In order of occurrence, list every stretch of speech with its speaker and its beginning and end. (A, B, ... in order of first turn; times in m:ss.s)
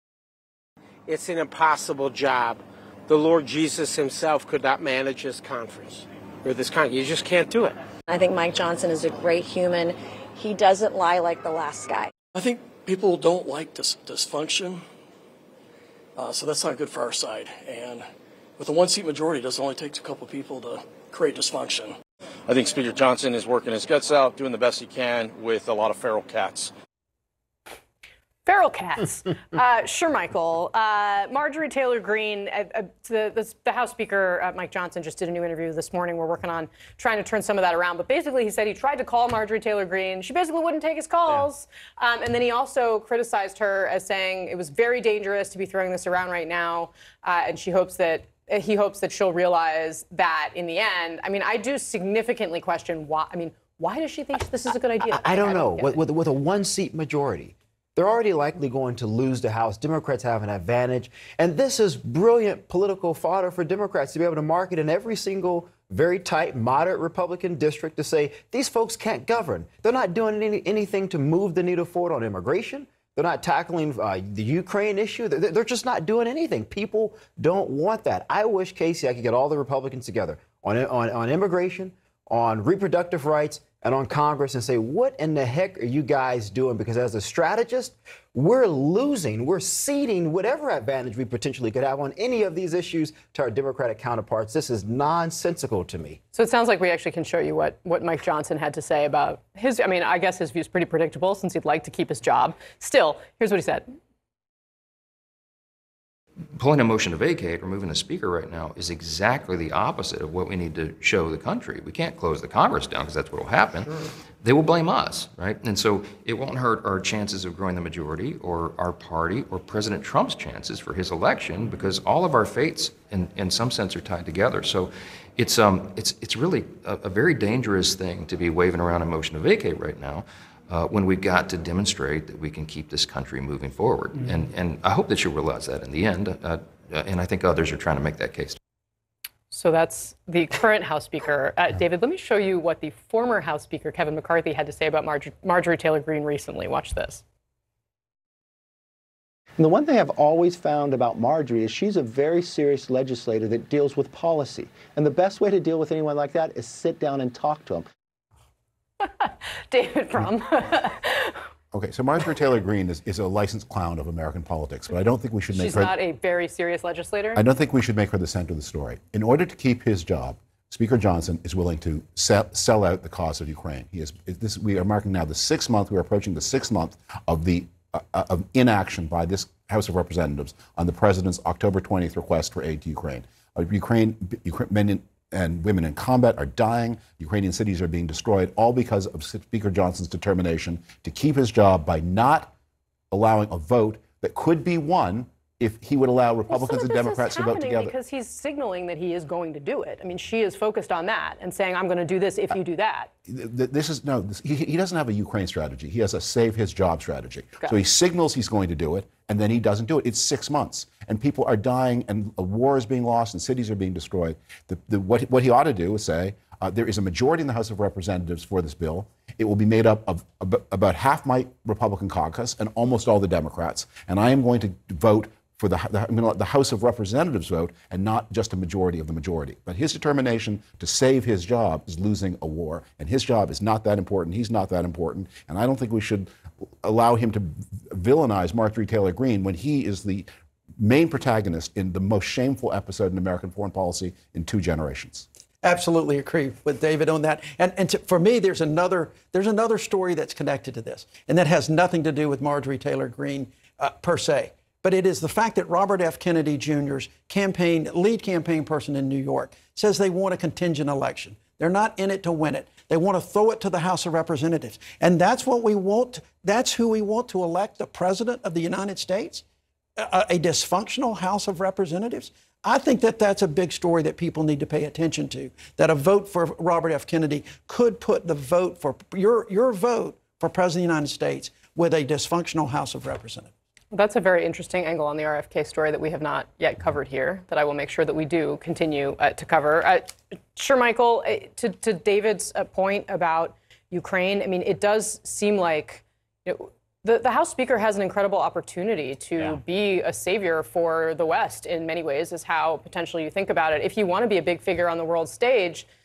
0:01.1-0:07.8 A
0:08.1-0:12.1 B
0:12.3-0:14.8 C
0:16.2-0:18.1 C
0:18.6-0:22.0 C
0:22.5-0:26.7 D
0:28.4-0:56.0 E
0:55.1-1:36.2 F
1:36.3-1:43.8 E
1:46.5-2:18.6 G
2:19.5-2:27.2 E
2:29.6-2:37.9 H
2:39.0-2:41.4 E
2:41.7-2:45.9 I
2:45.5-2:47.4 E
2:47.4-3:12.5 I
3:13.1-3:17.9 I
3:16.5-3:23.1 E
3:23.3-3:56.3 I
3:56.8-4:00.3 I
4:00.8-4:05.2 I
4:05.6-4:29.4 J
4:30.0-4:43.5 J
4:43.9-5:05.9 E